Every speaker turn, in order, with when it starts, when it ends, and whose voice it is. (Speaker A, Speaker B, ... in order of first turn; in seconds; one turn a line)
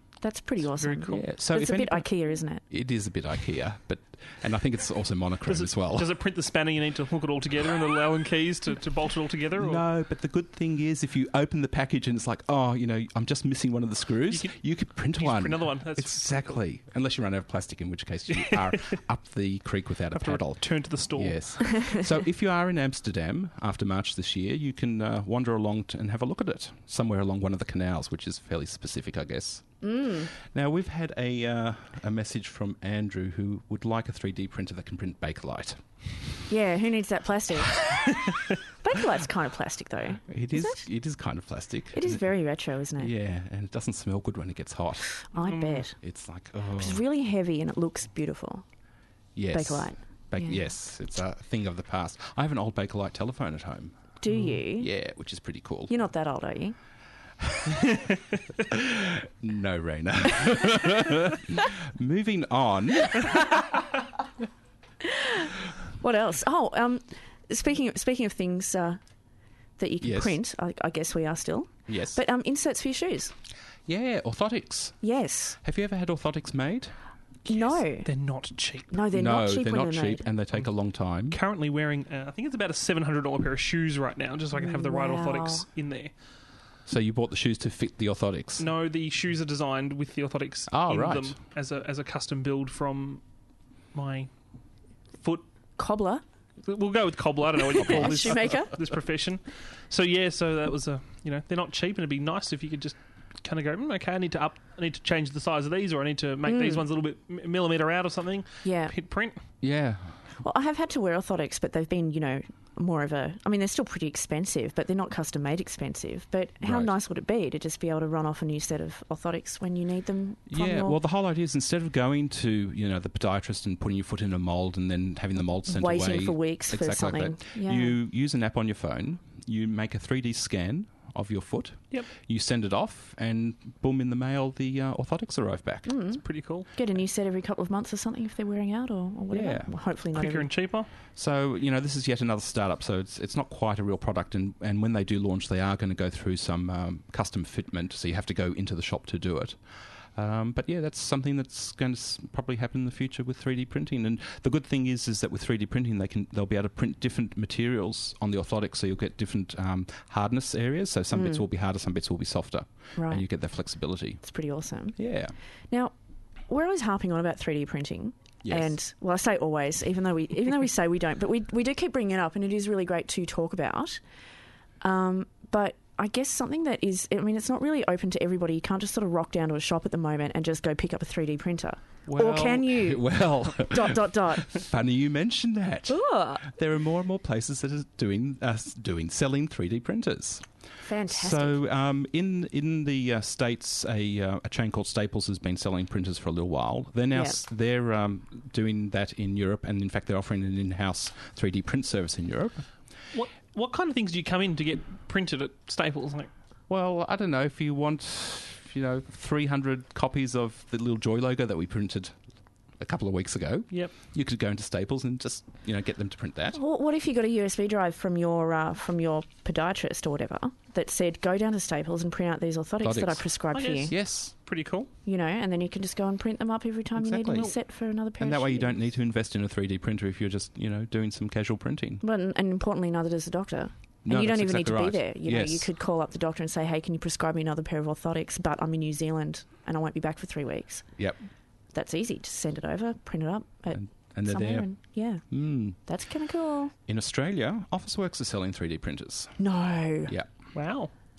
Speaker A: 0.2-2.6
Speaker B: 0.8-1.2
Speaker C: 1.1-2.1
Speaker C: 2.7-6.1
Speaker B: 5.5-9.8
Speaker C: 9.6-35.8
Speaker B: 14.3-16.6
Speaker B: 18.4-18.8
Speaker B: 20.1-21.6
Speaker A: 29.8-30.3
Speaker A: 36.5-38.1
Speaker A: 38.8-40.8
Speaker C: 40.3-42.2
Speaker A: 41.9-43.1
Speaker C: 43.0-45.2
Speaker A: 45.3-46.0
Speaker B: 45.4-45.8
Speaker C: 46.0-47.0
Speaker A: 46.8-48.6
Speaker C: 49.4-55.9
Speaker A: 49.5-50.6
Speaker A: 54.2-54.9
Speaker A: 55.9-56.8
Speaker C: 57.4-57.8
Speaker C: 58.6-63.6
Speaker A: 65.0-69.0
Speaker A: 69.8-73.3
Speaker C: 70.0-70.4
Speaker C: 71.9-72.2
Speaker C: 73.8-75.0
Speaker A: 75.0-75.6
Speaker C: 75.6-76.9
Speaker A: 77.5-78.1
Speaker B: 78.0-78.9
Speaker A: 78.9-80.3
Speaker C: 79.1-81.4
Speaker B: 81.3-86.1
Speaker A: 84.5-85.6
Speaker C: 86.8-88.7
Speaker B: 88.6-93.2
Speaker C: 90.7-91.3
Speaker B: 93.9-94.3
Speaker A: 95.8-96.2
Speaker B: 96.6-109.4
Speaker A: 97.7-98.7
Speaker A: 106.5-106.8
Speaker A: 108.6-108.9
Speaker C: 109.6-110.2
Speaker A: 110.4-121.0
Speaker C: 116.6-116.9
Speaker C: 120.5-135.9
Speaker A: 125.7-128.0
Speaker A: 135.8-140.5
Speaker B: 136.2-136.7
Speaker C: 139.3-139.7
Speaker B: 140.1-140.9
Speaker C: 141.1-149.6
Speaker C: 150.1-164.2
Speaker A: 161.1-161.4
Speaker A: 163.0-163.2
Speaker A: 164.2-165.0
Speaker C: 165.0-165.3
Speaker A: 166.5-174.0
Speaker C: 168.4-168.7
Speaker A: 174.8-184.6
Speaker C: 182.1-190.4
Speaker A: 185.9-186.5
Speaker A: 190.8-191.6
Speaker C: 191.1-202.7
Speaker A: 197.1-197.4
Speaker B: 203.1-206.3
Speaker C: 206.7-212.1
Speaker C: 212.8-216.6
Speaker A: 216.5-223.9
Speaker C: 222.8-223.2
Speaker B: 223.5-224.9
Speaker C: 223.9-224.3
Speaker A: 225.1-228.7
Speaker C: 227.0-227.5
Speaker C: 228.2-232.0
Speaker A: 232.0-240.8
Speaker C: 234.0-235.7
Speaker A: 241.7-246.7
Speaker C: 243.7-244.7
Speaker C: 245.3-245.8
Speaker C: 246.9-249.4
Speaker A: 249.4-250.1
Speaker B: 250.5-250.9